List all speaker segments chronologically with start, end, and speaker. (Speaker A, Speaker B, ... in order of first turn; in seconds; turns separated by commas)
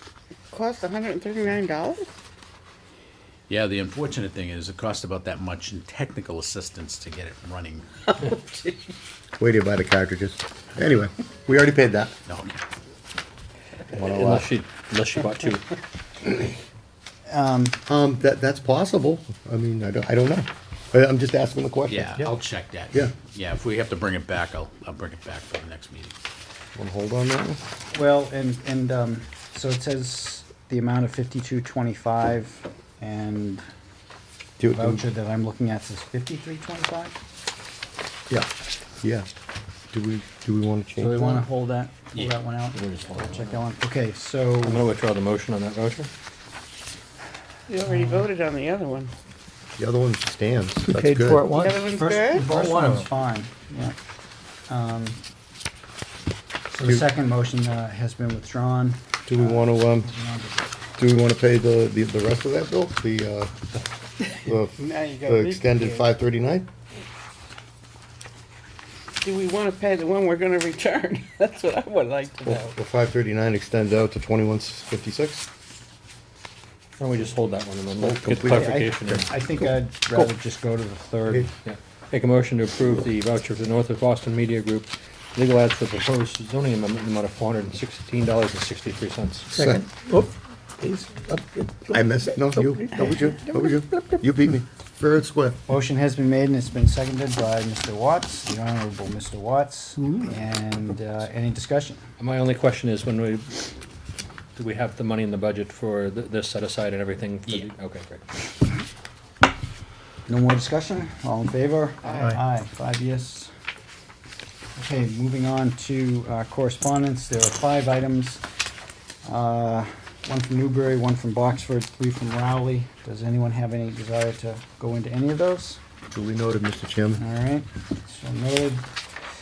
Speaker A: 0.5-2.1, Speaker B: 3.5-8.2, Speaker A: 8.2-8.7, Speaker C: 9.4-12.2, Speaker B: 12.3-12.6, Speaker C: 13.9-14.5, Speaker D: 14.0-15.8, Speaker E: 17.3-17.8, Speaker C: 17.9-22.4, Speaker B: 21.9-26.1, Speaker C: 26.8-27.6, Speaker E: 27.9-33.6, Speaker C: 34.6-35.0, Speaker E: 34.7-37.2, Speaker C: 39.0-39.3, Speaker C: 39.9-41.4, Speaker E: 41.0-44.9, Speaker D: 42.7-43.6, Speaker D: 44.6-46.1, Speaker A: 47.7-49.1, Speaker E: 47.9-48.2, Speaker C: 49.8-51.5, Speaker F: 50.9-51.9, Speaker A: 51.5-52.5, Speaker E: 51.9-54.0, Speaker F: 52.5-53.0, Speaker E: 54.7-55.2, Speaker E: 56.7-60.6, Speaker C: 59.3-60.1, Speaker C: 61.0-66.7, Speaker A: 64.8-66.1, Speaker A: 69.2-72.7, Speaker C: 72.5-75.5, Speaker D: 77.0-79.3, Speaker C: 78.0-78.8, Speaker E: 78.5-81.5, Speaker D: 81.7-89.6, Speaker F: 89.5-94.0, Speaker C: 89.6-89.8, Speaker C: 91.9-95.6, Speaker E: 95.7-102.0, Speaker D: 102.2-103.6, Speaker D: 104.6-108.4, Speaker E: 110.3-113.5, Speaker E: 114.8-118.4, Speaker E: 119.2-125.8, Speaker C: 126.1-127.2, Speaker E: 127.2-128.8